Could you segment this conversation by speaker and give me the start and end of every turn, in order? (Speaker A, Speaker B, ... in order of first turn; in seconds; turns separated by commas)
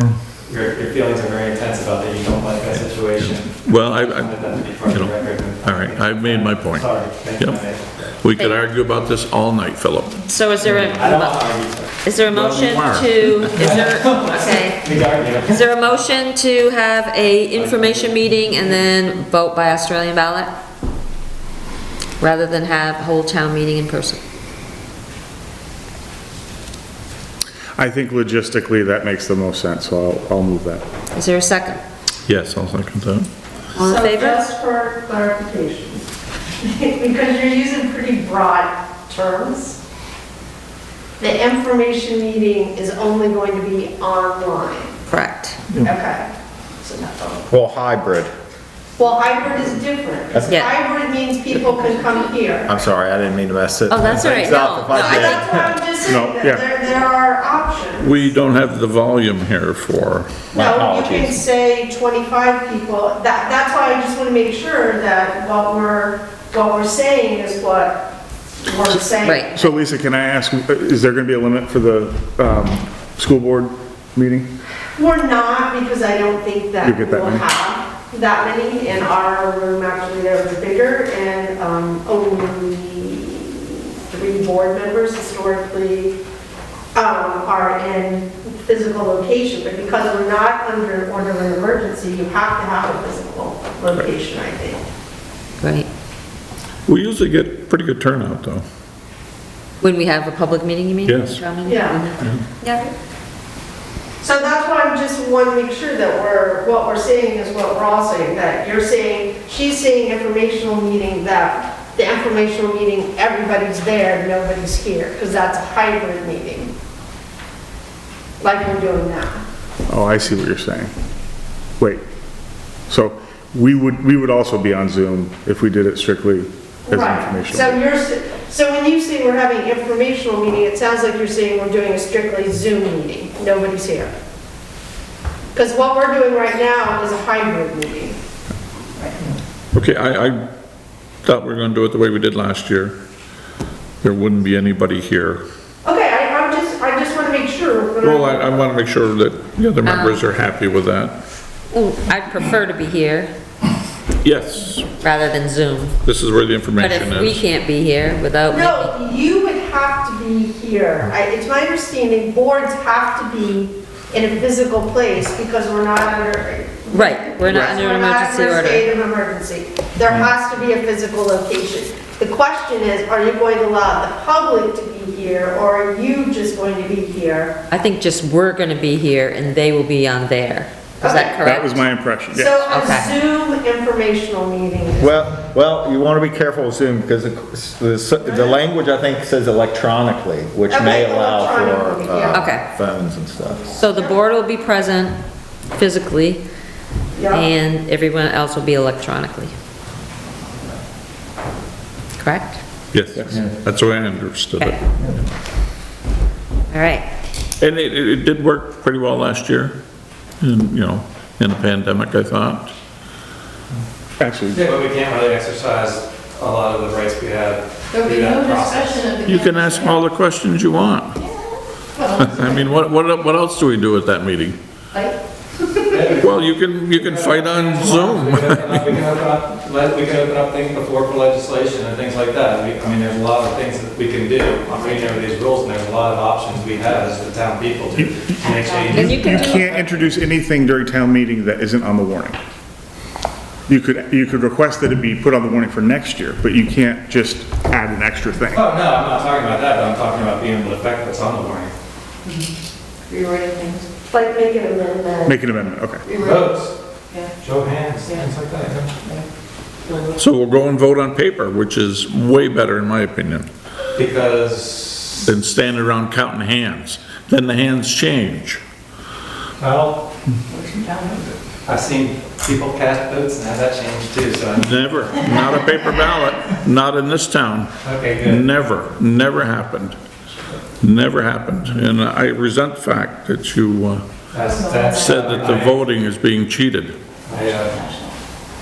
Speaker A: 0.5-8.1, Speaker B: 3.6-7.6, Speaker B: 8.2-10.2, Speaker C: 10.3-11.4, Speaker A: 10.6-12.0, Speaker C: 12.0-14.8, Speaker B: 12.2-13.7, Speaker A: 13.6-15.7, Speaker C: 15.4-20.5, Speaker A: 17.6-18.5, Speaker C: 22.2-24.2, Speaker D: 27.8-30.8, Speaker C: 31.1-31.8, Speaker B: 32.3-33.3, Speaker C: 33.7-34.4, Speaker E: 33.8-36.0, Speaker E: 36.6-39.8, Speaker E: 41.2-45.0, Speaker C: 45.1-45.6, Speaker E: 45.8-46.3, Speaker E: 46.8-47.4, Speaker F: 47.5-48.3, Speaker E: 49.0-52.7, Speaker F: 50.3-50.6, Speaker F: 52.7-55.8, Speaker C: 53.9-55.4, Speaker E: 54.9-58.3, Speaker D: 56.0-56.7, Speaker B: 58.0-60.3, Speaker F: 60.5-61.4, Speaker E: 60.5-68.0, Speaker E: 68.7-69.5, Speaker C: 69.2-69.6, Speaker D: 69.5-74.5, Speaker E: 75.0-86.2, Speaker D: 76.8-77.5, Speaker E: 86.9-94.8, Speaker C: 95.6-95.9, Speaker B: 96.9-98.6, Speaker C: 99.8-102.9, Speaker B: 101.0-101.4, Speaker E: 101.6-102.1, Speaker E: 104.2-116.7, Speaker E: 118.4-119.4, Speaker D: 119.9-120.9, Speaker D: 122.9-127.8, Speaker E: 126.9-134.1, Speaker E: 135.5-138.2, Speaker B: 139.7-140.4, Speaker B: 141.2-142.9, Speaker B: 144.0-145.4, Speaker E: 145.8-148.6, Speaker B: 148.0-151.2, Speaker C: 149.8-150.2, Speaker C: 151.7-153.3, Speaker B: 154.2-154.9, Speaker C: 155.0-156.0, Speaker B: 156.0-157.4, Speaker C: 156.8-158.9, Speaker E: 158.5-177.5, Speaker C: 166.9-168.8, Speaker D: 167.5-167.8, Speaker C: 177.7-181.7, Speaker E: 181.0-181.6, Speaker D: 181.4-182.8, Speaker E: 182.3-185.2, Speaker C: 182.7-183.1, Speaker F: 185.0-193.7, Speaker E: 188.2-188.6, Speaker E: 190.7-192.5, Speaker C: 192.3-192.6, Speaker E: 193.6-194.2, Speaker C: 193.8-195.2, Speaker C: 195.7-196.4, Speaker E: 197.1-197.5, Speaker C: 197.3-199.5, Speaker C: 202.2-202.6, Speaker B: 202.9-204.8, Speaker C: 206.7-207.0, Speaker B: 207.6-209.8, Speaker B: 210.4-212.7, Speaker D: 214.2-214.6, Speaker A: 214.5-219.1, Speaker G: 217.9-219.8, Speaker B: 219.2-221.2, Speaker B: 222.1-224.6, Speaker A: 225.9-239.4, Speaker B: 226.2-228.9, Speaker C: 238.8-239.8, Speaker D: 238.9-242.4, Speaker D: 243.7-248.6, Speaker A: 248.5-251.7, Speaker G: 253.1-253.9, Speaker E: 254.1-255.3, Speaker D: 255.2-256.1, Speaker G: 256.1-256.5, Speaker A: 256.2-256.7, Speaker A: 257.4-258.9, Speaker G: 259.9-260.1, Speaker B: 260.1-263.5, Speaker A: 263.9-265.2, Speaker B: 265.2-268.6, Speaker A: 269.6-270.1, Speaker G: 270.5-271.3, Speaker A: 271.6-275.1, Speaker B: 274.6-277.7, Speaker A: 277.8-278.5, Speaker B: 278.2-279.9, Speaker B: 280.8-284.0, Speaker A: 284.3-285.8, Speaker B: 284.9-286.9, Speaker A: 287.3-287.8, Speaker G: 287.4-288.1